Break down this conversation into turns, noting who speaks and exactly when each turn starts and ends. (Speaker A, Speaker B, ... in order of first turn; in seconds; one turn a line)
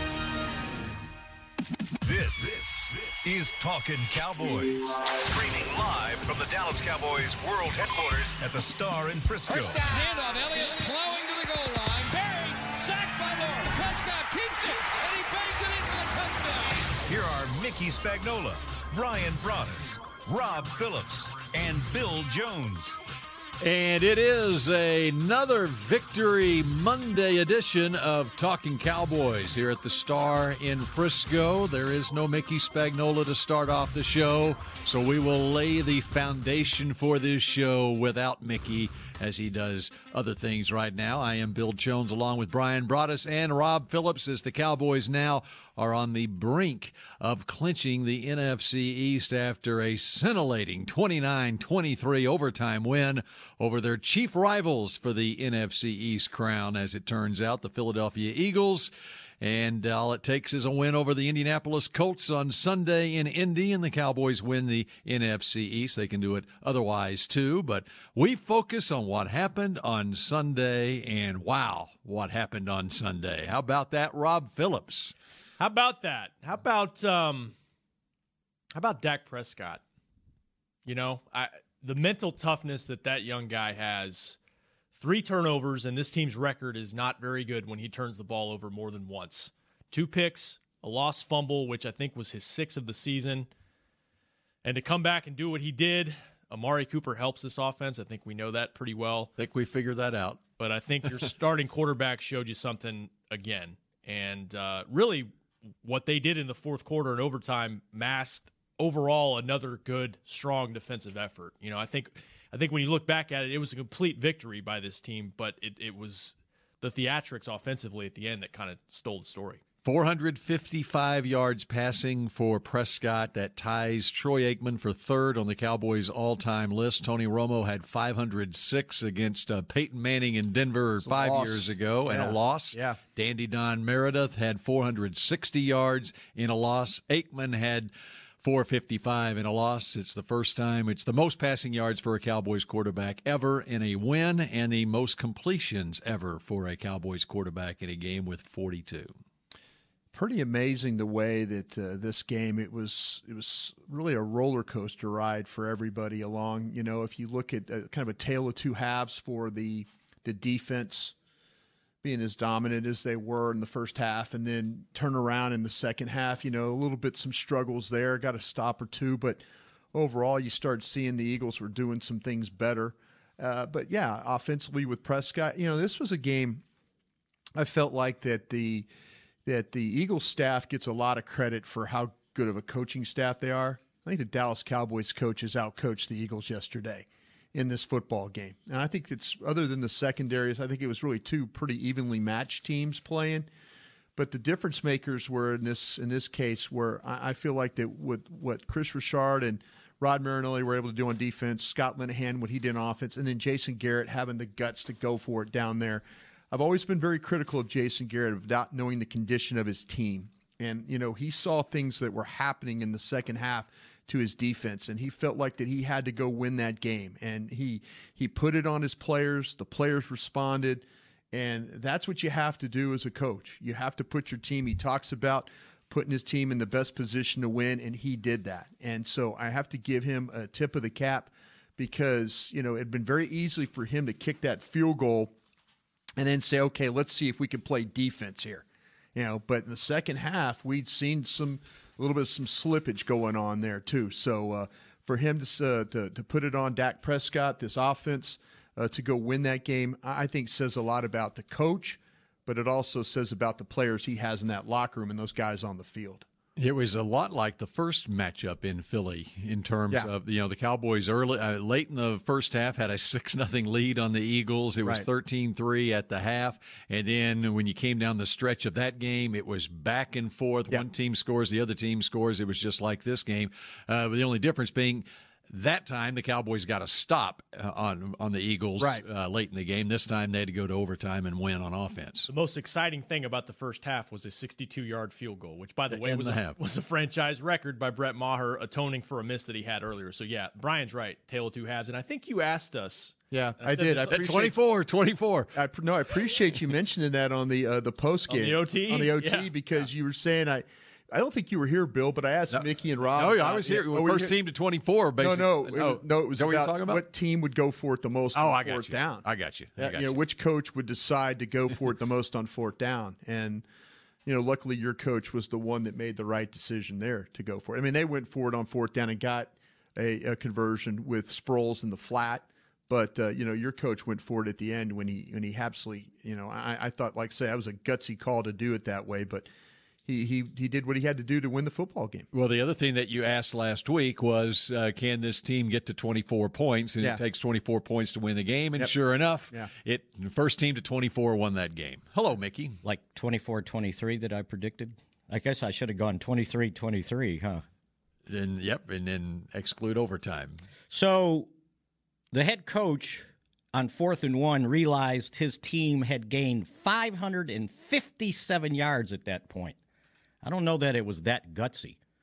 Speaker A: 2.0-9.9
Speaker B: 9.5-17.0
Speaker A: 17.1-23.0
Speaker C: 23.6-75.1
Speaker D: 75.6-77.5
Speaker D: 78.7-79.8
Speaker D: 80.8-84.4
Speaker D: 85.0-93.5
Speaker D: 94.6-99.3
Speaker C: 99.4-100.4
Speaker D: 100.6-105.3
Speaker D: 105.8-119.6
Speaker C: 119.8-149.1
Speaker E: 131.0-133.0
Speaker E: 150.1-161.2
Speaker E: 162.0-169.4
Speaker E: 169.9-176.6
Speaker E: 177.6-178.9
Speaker E: 179.4-193.5
Speaker E: 194.2-235.3
Speaker E: 236.2-238.6
Speaker E: 239.2-256.2
Speaker C: 256.6-282.3
Speaker E: 278.8-279.1
Speaker D: 282.3-294.2
Speaker C: 285.9-286.6
Speaker E: 293.3-294.6
Speaker C: 294.0-295.6
Speaker E: 295.5-304.4
Speaker D: 298.3-299.5
Speaker C: 302.5-307.0
Speaker E: 305.2-309.2
Speaker C: 308.3-310.2
Speaker E: 309.8-313.6
Speaker E: 314.3-329.5
Speaker E: 330.1-332.3
Speaker C: 332.3-342.8
Speaker F: 342.8-347.6
Speaker C: 348.3-350.6
Speaker F: 350.9-351.5
Speaker F: 352.3-359.8
Speaker F: 360.4-362.0